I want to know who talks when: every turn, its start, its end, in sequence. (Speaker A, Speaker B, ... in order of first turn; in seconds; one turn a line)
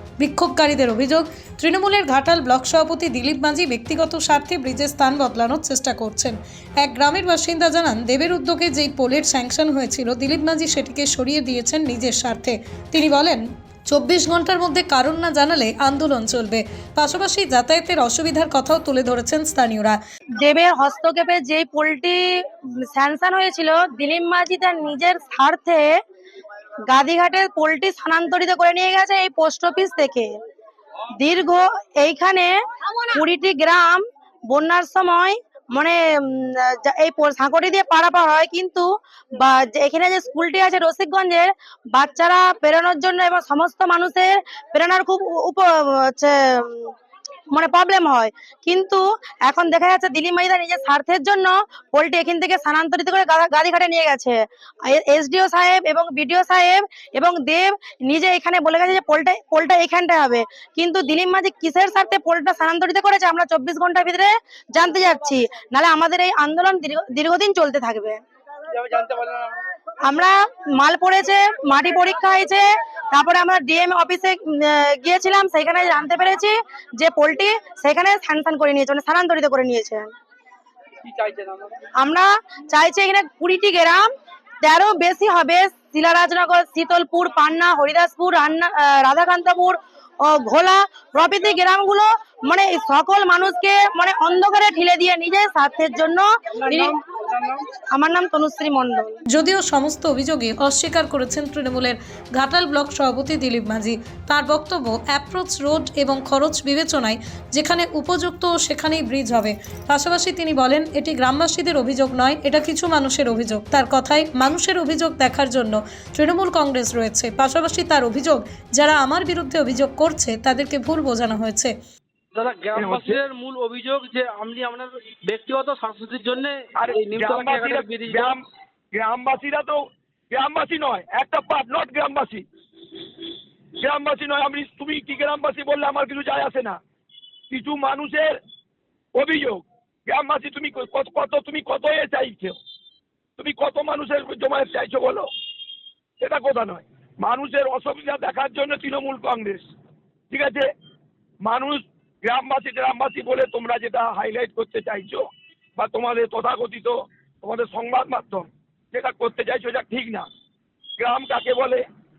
Speaker A: 0.2-20.0
Speaker B: 20.4-22.2
Speaker B: 22.9-26.0
Speaker B: 26.9-30.3
Speaker B: 31.2-32.6
Speaker B: 33.1-38.9
Speaker B: 39.4-46.9
Speaker B: 47.5-68.2
Speaker C: 68.9-69.5
Speaker B: 70.1-80.1
Speaker C: 81.1-81.7
Speaker B: 82.0-84.1
Speaker B: 84.6-97.0
Speaker C: 96.7-97.6
Speaker B: 97.7-99.2
Speaker A: 99.3-121.7
Speaker C: 122.3-128.3
Speaker D: 122.8-123.2
Speaker D: 126.8-128.4
Speaker D: 128.9-133.3
Speaker D: 133.8-136.8
Speaker D: 137.5-138.4
Speaker D: 139.2-142.6
Speaker D: 143.4-145.3
Speaker D: 146.2-149.7
Speaker D: 150.3-150.7
Speaker D: 151.4-155.2
Speaker D: 155.8-160.3
Speaker D: 161.0-161.8